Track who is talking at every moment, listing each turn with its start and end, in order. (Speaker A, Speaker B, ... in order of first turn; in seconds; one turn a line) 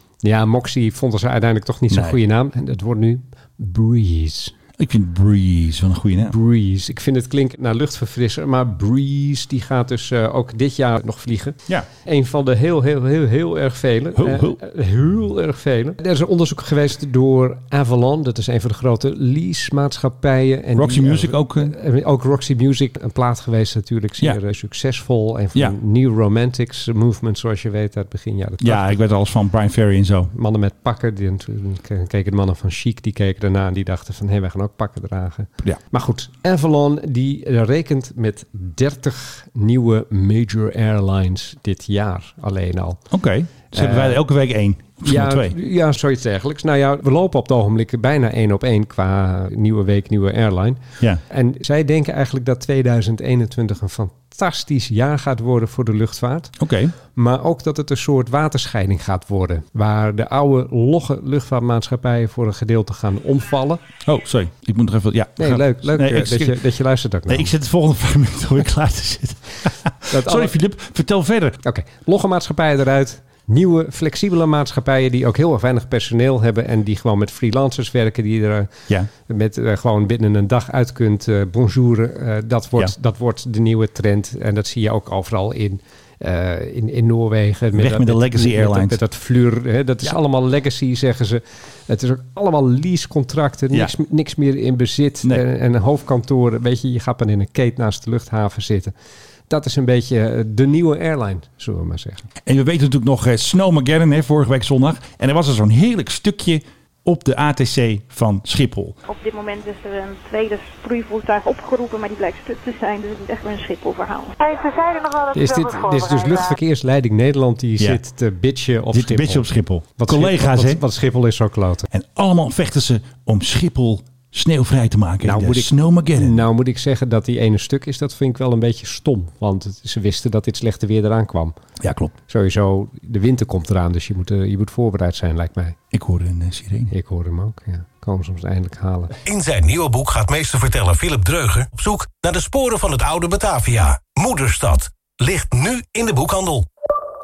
Speaker A: 0.2-4.5
Speaker B: 1.9-2.2
Speaker B: 4.8-6.3
Speaker A: 6.3-29.0
Speaker B: 14.2-14.6
Speaker B: 20.8-21.7
Speaker B: 28.6-30.3
Speaker A: 30.3-43.0
Speaker B: 43.1-45.5
Speaker A: 43.7-44.2
Speaker A: 45.0-56.5
Speaker B: 56.6-56.9
Speaker A: 57.1-63.8
Speaker B: 64.0-66.6
Speaker A: 65.4-67.5
Speaker B: 67.3-71.6
Speaker A: 70.1-70.5
Speaker A: 71.6-98.9
Speaker B: 87.7-89.0
Speaker A: 99.5-102.2
Speaker B: 102.5-109.0
Speaker C: 109.0-114.3
Speaker D: 114.4-116.6
Speaker A: 115.3-121.9
Speaker B: 118.9-120.8
Speaker B: 121.9-126.5
Speaker A: 125.2-131.5
Speaker B: 131.8-132.1
Speaker A: 132.3-135.8
Speaker B: 135.9-136.9
Speaker A: 136.9-139.2
Speaker E: 139.2-146.7